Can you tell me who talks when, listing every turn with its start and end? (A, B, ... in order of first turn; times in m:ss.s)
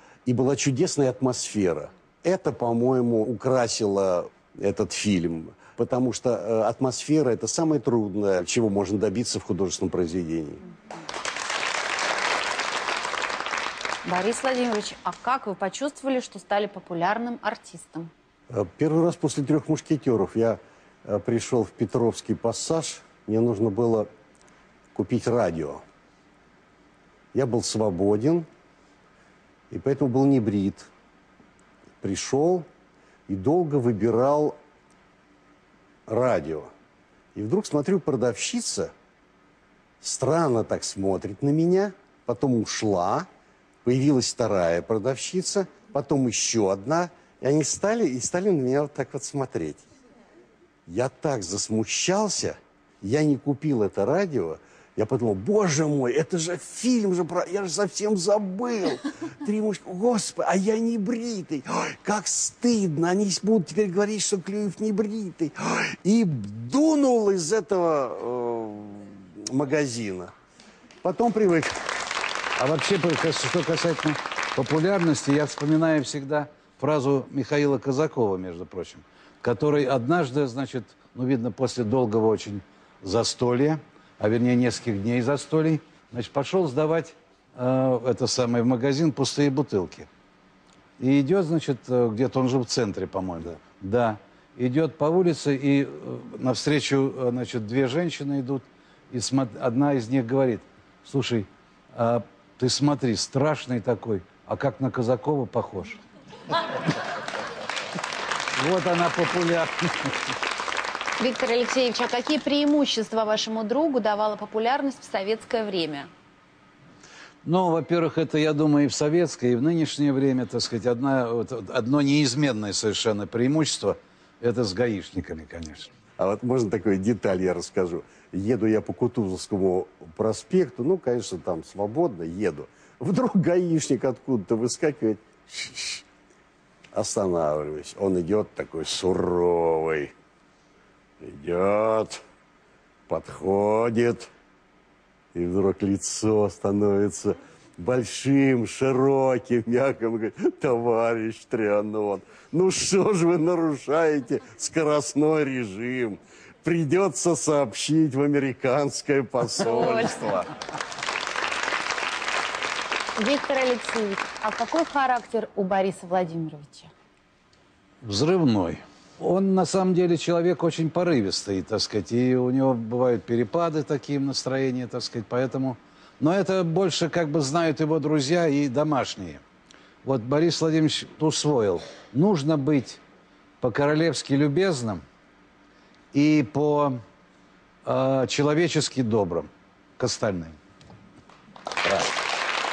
0:00.2-0:10.6 A
0:14.0-0:18.1 B
0:18.5-0:24.1 A
0:24.9-0:25.8 A
0:27.3-0:28.5 A
0:29.7-0:30.9 A
0:32.0-0:32.7 A
0:33.3-0:34.6 A
0:36.1-0:36.7 A
0:37.3-0:38.9 A
0:40.0-0:43.3 A
0:43.8-0:49.9 A
0:50.9-1:10.3 A
1:11.0-1:11.9 A
1:12.6-1:30.1 C
1:31.0-1:46.0 C
1:48.6-1:50.2 C
1:51.2-1:56.1 B
1:57.4-2:05.9 C
2:06.2-2:16.0 A
2:16.9-2:20.1 A
2:21.2-2:22.2 A
2:23.1-2:24.3 A
2:25.3-2:40.5 A
2:39.6-2:40.2 B
2:43.2-2:46.9 B
2:48.0-2:59.4 C
3:00.0-3:03.0 C
3:03.6-3:05.0 C
3:06.1-3:07.0 C
3:07.8-3:10.6 C